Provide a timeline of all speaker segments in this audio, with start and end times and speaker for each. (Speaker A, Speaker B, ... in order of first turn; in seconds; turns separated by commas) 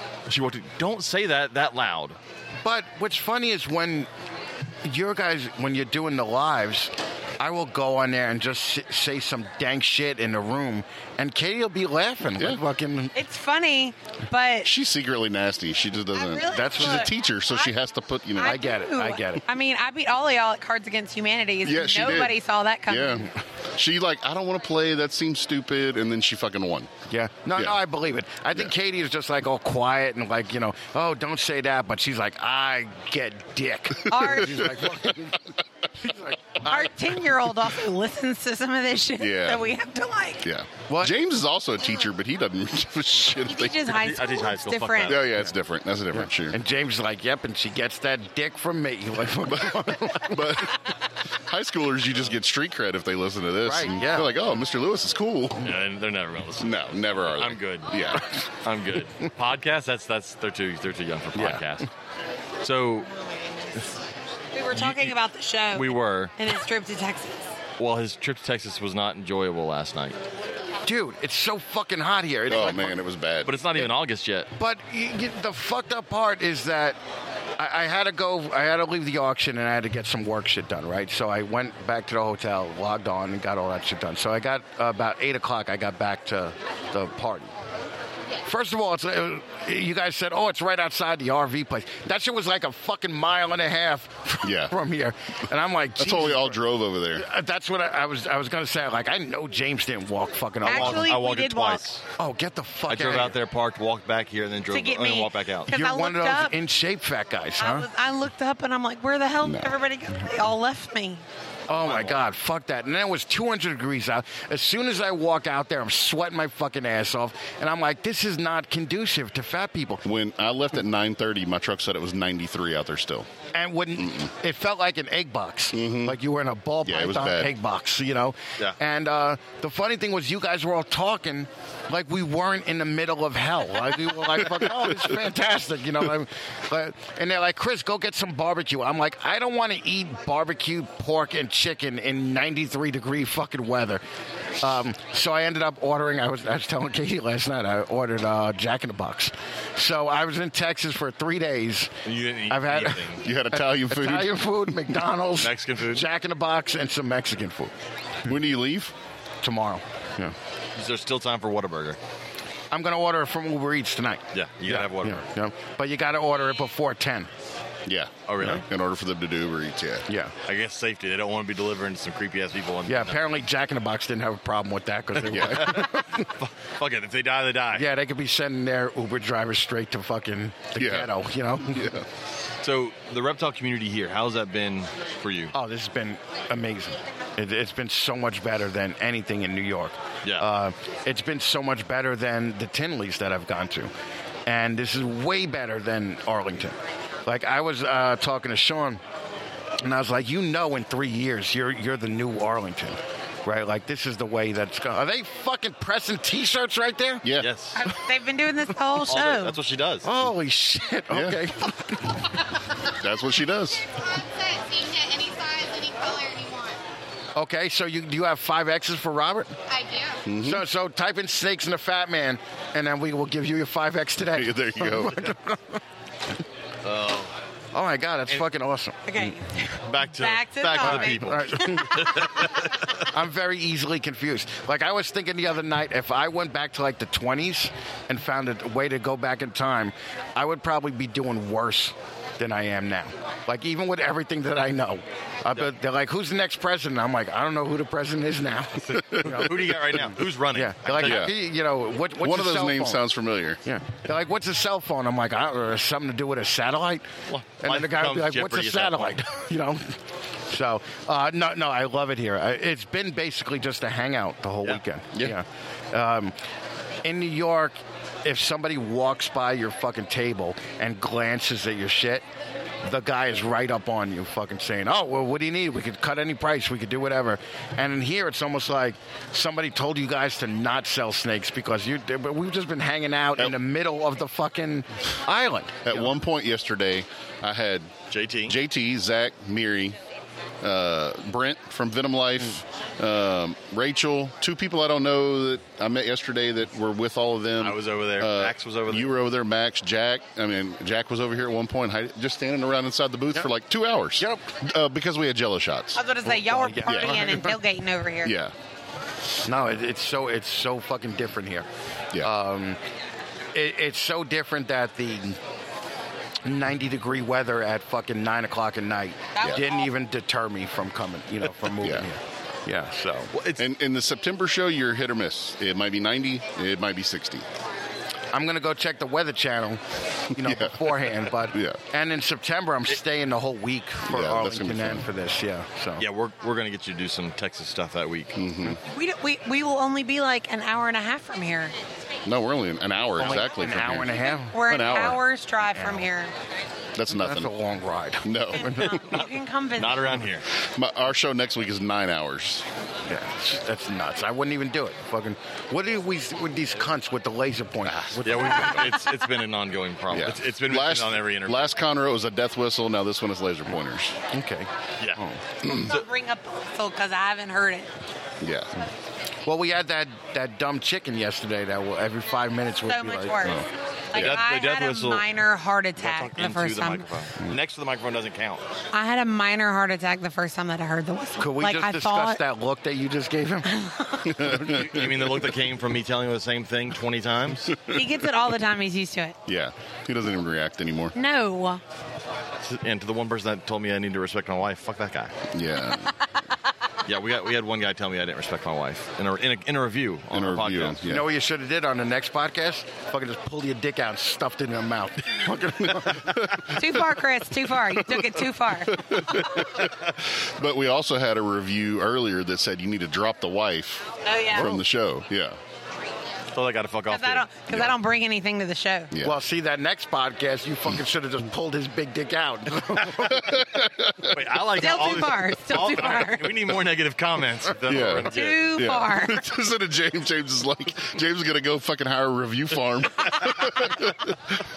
Speaker A: 0.3-2.2, Speaker B: 2.6-4.1, Speaker B: 4.8-13.1, Speaker C: 13.1-14.7, Speaker D: 14.6-18.6, Speaker C: 16.1-17.7, Speaker B: 16.5-17.1, Speaker C: 18.4-23.3, Speaker B: 18.4-19.4, Speaker D: 21.6-22.3, Speaker D: 22.9-26.9, Speaker B: 27.1-37.3, Speaker C: 34.1-34.7, Speaker D: 34.1-34.7, Speaker C: 36.6-40.4, Speaker D: 39.2-39.7, Speaker D: 40.4-43.9, Speaker B: 40.9-41.1, Speaker C: 43.4-45.2, Speaker A: 43.9-45.3, Speaker D: 45.0-46.6, Speaker B: 46.1-50.6, Speaker D: 49.5-50.8, Speaker D: 51.5-55.7, Speaker B: 53.6-54.3, Speaker A: 55.6-58.1, Speaker D: 56.6-58.3, Speaker A: 58.6-61.9, Speaker B: 61.4-61.6, Speaker A: 62.6-63.1, Speaker C: 64.5-67.5, Speaker A: 64.7-65.2, Speaker A: 65.7-66.3, Speaker A: 67.8-70.2, Speaker B: 70.8-73.0, Speaker D: 72.5-73.5, Speaker A: 73.4-74.5, Speaker B: 74.5-77.0, Speaker B: 77.6-87.5, Speaker B: 88.4-96.6, Speaker D: 94.4-94.7, Speaker D: 96.0-97.3, Speaker B: 97.2-101.1, Speaker C: 100.6-101.8, Speaker A: 100.6-102.0, Speaker B: 102.2-103.3, Speaker A: 102.9-105.7, Speaker C: 104.7-106.5, Speaker B: 105.7-107.9, Speaker C: 107.6-111.2, Speaker D: 109.4-109.7, Speaker B: 111.7-120.0, Speaker A: 111.8-112.2, Speaker D: 120.0-123.3, Speaker B: 123.5-144.0, Speaker D: 124.0-124.3, Speaker D: 125.7-126.2, Speaker D: 126.8-127.5, Speaker B: 144.6-157.7, Speaker A: 152.0-153.2, Speaker D: 153.2-154.9, Speaker A: 155.4-156.1, Speaker D: 158.2-158.9, Speaker B: 159.4-160.3, Speaker A: 160.8-162.0, Speaker B: 162.7-167.3, Speaker A: 164.3-165.2, Speaker D: 167.9-170.1, Speaker A: 168.3-168.6, Speaker B: 170.1-170.3, Speaker A: 170.4-173.2, Speaker B: 172.8-176.2, Speaker D: 175.3-175.8, Speaker A: 175.3-177.9, Speaker B: 177.7-181.9, Speaker D: 180.8-182.1, Speaker A: 182.6-185.5, Speaker B: 185.5-193.9, Speaker A: 190.2-190.5, Speaker B: 194.4-199.0, Speaker B: 199.8-207.2, Speaker D: 207.2-207.5, Speaker A: 207.4-207.8, Speaker C: 207.7-209.6, Speaker A: 209.0-210.1, Speaker B: 210.0-212.1, Speaker D: 211.1-211.5, Speaker D: 213.0-213.8, Speaker E: 213.9-216.8, Speaker B: 217.3-219.6, Speaker E: 219.7-220.2, Speaker D: 220.2-220.6, Speaker B: 220.4-225.8, Speaker D: 224.3-225.4, Speaker A: 226.8-227.3, Speaker B: 227.7-229.4, Speaker C: 229.1-232.2, Speaker A: 229.8-233.0, Speaker B: 230.8-232.2, Speaker B: 233.1-253.0, Speaker A: 248.8-251.3, Speaker D: 249.1-249.4, Speaker D: 251.0-251.4, Speaker D: 252.2-253.6, Speaker B: 253.6-257.1, Speaker A: 257.3-259.2, Speaker B: 257.6-266.3, Speaker B: 267.0-272.2, Speaker B: 272.8-286.1, Speaker D: 285.8-287.9, Speaker A: 288.1-288.5, Speaker D: 288.4-290.0, Speaker D: 290.6-306.0, Speaker A: 297.6-299.1, Speaker B: 304.2-304.5, Speaker C: 305.9-308.4, Speaker B: 306.3-307.6, Speaker D: 306.8-307.3, Speaker D: 308.2-308.5, Speaker B: 309.4-311.7, Speaker B: 312.2-312.8, Speaker B: 313.5-315.4, Speaker B: 316.4-323.3, Speaker C: 319.4-319.9, Speaker D: 321.8-322.1, Speaker A: 323.3-323.7, Speaker D: 323.6-327.4, Speaker B: 328.3-329.8, Speaker B: 330.4-336.0, Speaker D: 330.4-331.0, Speaker D: 331.5-331.8, Speaker D: 334.1-335.0, Speaker A: 336.0-338.4, Speaker D: 338.3-338.8, Speaker C: 338.9-341.7, Speaker D: 342.2-345.2, Speaker B: 343.2-344.6, Speaker C: 344.5-346.3, Speaker B: 345.7-346.1, Speaker D: 346.9-347.5, Speaker B: 347.1-348.9, Speaker D: 348.2-349.0, Speaker C: 348.5-350.2, Speaker A: 349.8-350.4, Speaker D: 350.8-352.6, Speaker B: 353.1-358.9, Speaker D: 357.8-358.6, Speaker A: 358.2-361.7, Speaker D: 360.1-364.1, Speaker B: 364.3-365.4, Speaker D: 365.6-365.9, Speaker C: 365.7-367.9, Speaker A: 365.8-366.1, Speaker D: 368.4-368.7, Speaker B: 369.4-373.6, Speaker C: 372.9-377.0, Speaker D: 374.1-374.4, Speaker A: 374.1-375.2, Speaker A: 376.0-378.6, Speaker C: 378.9-382.4, Speaker B: 381.4-383.7, Speaker C: 383.7-384.5, Speaker D: 384.2-385.3, Speaker A: 384.6-387.8, Speaker C: 387.9-389.4, Speaker D: 389.4-391.1, Speaker C: 391.1-391.8, Speaker A: 392.6-395.4, Speaker D: 395.5-396.1, Speaker A: 397.0-401.0, Speaker D: 400.3-401.3, Speaker B: 401.1-406.5, Speaker C: 406.7-409.7, Speaker D: 408.0-408.3, Speaker D: 408.9-415.6, Speaker C: 414.2-414.8, Speaker A: 416.5-417.5, Speaker C: 417.1-419.1, Speaker D: 419.1-419.4, Speaker B: 419.2-423.6, Speaker D: 423.2-424.4, Speaker A: 424.3-428.8, Speaker C: 424.8-426.5, Speaker D: 427.9-434.4, Speaker C: 428.3-429.4, Speaker A: 433.4-433.8